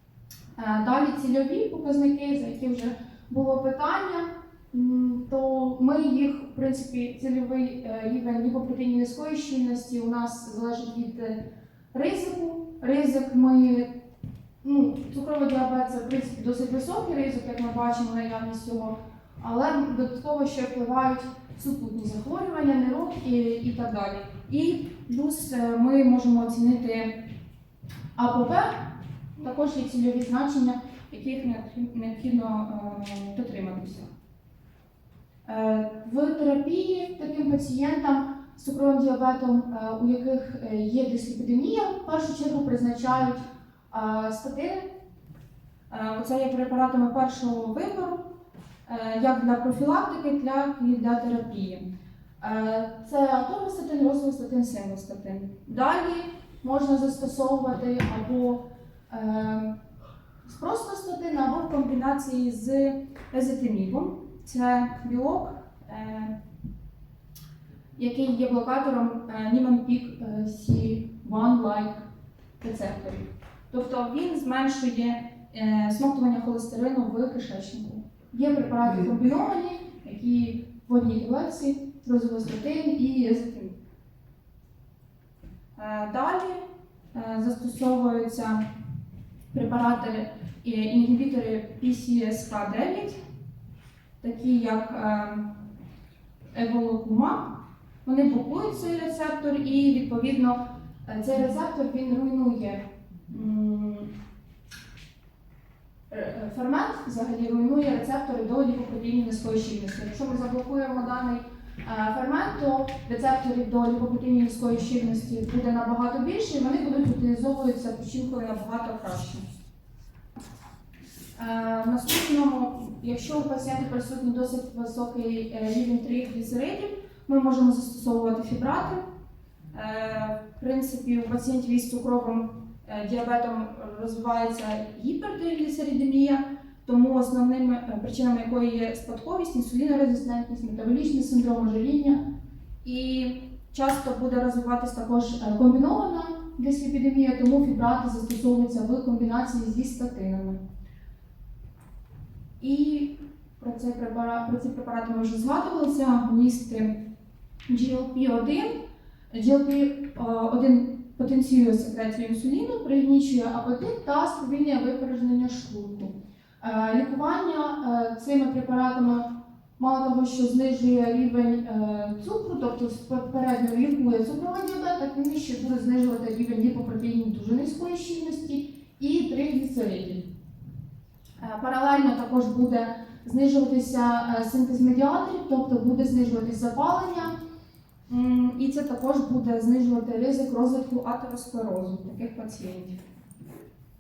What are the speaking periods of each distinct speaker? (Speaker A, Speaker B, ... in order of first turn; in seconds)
Speaker A: 0.6-11.4, 11.9-13.9, 14.6-27.2, 28.1-34.1, 35.5-44.9, 45.9-48.2, 48.9-51.8, 52.4-59.8, 60.5-66.3, 68.0-72.0, 72.6-83.8, 85.8-86.6, 87.1-88.6, 89.5-93.2, 94.2-95.7, 96.5-104.1, 106.1-119.5, 121.4-129.0, 129.7-142.2, 142.8-150.6, 152.6-157.0, 157.7-158.7, 159.3-180.3, 181.4-187.4, 188.1-193.0